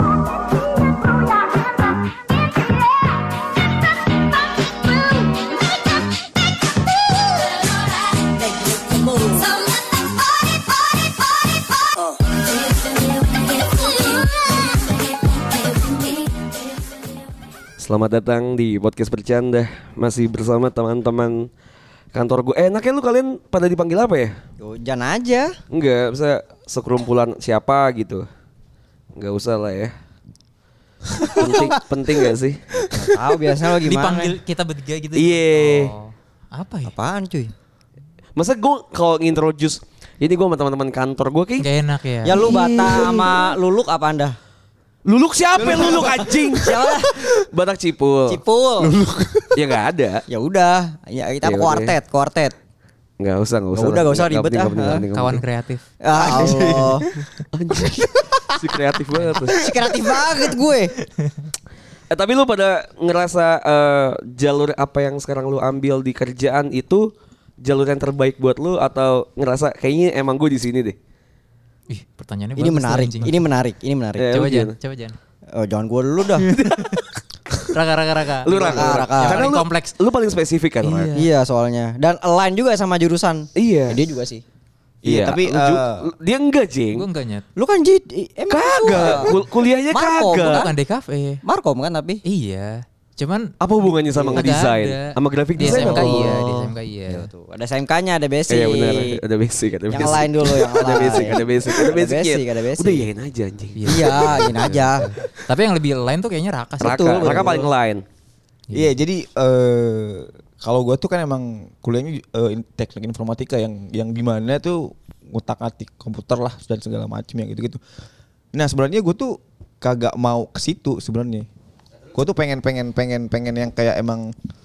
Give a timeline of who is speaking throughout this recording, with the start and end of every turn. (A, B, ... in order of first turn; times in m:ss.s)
0:01.2-0:01.5 A
0:04.5-0:05.4 A
0:07.1-0:16.5 A
0:17.8-0:21.5 B
0:22.1-0:24.3 B
0:24.6-0:25.6 C
0:25.7-0:28.2 B
0:29.2-0:29.9 B
0:31.2-0:31.5 D
0:31.3-0:33.0 B
0:32.8-0:34.3 C
0:33.7-0:36.9 D
0:35.1-0:35.9 B
0:36.8-0:37.5 C
0:38.4-0:41.7 B
0:41.6-0:42.4 D
0:42.2-0:44.4 C
0:42.3-0:43.5 B
0:45.1-0:50.2 B
0:45.6-0:46.5 E
0:46.5-0:47.2 C
0:48.3-0:48.9 C
0:50.3-0:52.5 C
0:51.4-0:51.9 B
0:53.2-0:55.4 B
0:53.7-0:55.0 C
0:55.1-0:57.4 D
0:56.0-0:57.1 C
0:57.5-0:59.7 B
0:59.1-0:59.6 D
0:59.5-1:00.9 C
1:01.2-1:01.5 D
1:02.1-1:07.1 B
1:07.6-1:11.0 B
1:11.9-1:13.5 D
1:12.6-1:14.3 C
1:14.2-1:14.8 B
1:14.3-1:15.2 D
1:15.5-1:16.5 C
1:16.4-1:17.8 B
1:16.6-1:17.0 D
1:17.7-1:19.9 D
1:18.4-1:21.1 B
1:18.6-1:19.4 C
1:20.8-1:21.3 D
1:21.1-1:24.4 C
1:23.6-1:24.0 B
1:25.0-1:26.1 E
1:25.0-1:27.1 B
1:26.9-1:27.4 D
1:27.6-1:29.4 C
1:28.5-1:30.7 B
1:29.9-1:30.7 C
1:30.4-1:31.4 D
1:31.4-1:32.2 C
1:32.2-1:37.3 D
1:33.6-1:36.3 B
1:35.6-1:39.2 C
1:38.5-1:44.6 B
1:39.9-1:43.1 C
1:41.0-1:41.3 D
1:43.8-1:47.3 D
1:43.8-1:45.1 C
1:46.8-1:48.0 B
1:46.8-1:47.6 C
1:47.2-1:47.7 E
1:48.7-1:57.8 E
1:58.5-2:01.5 E
2:02.1-2:04.3 E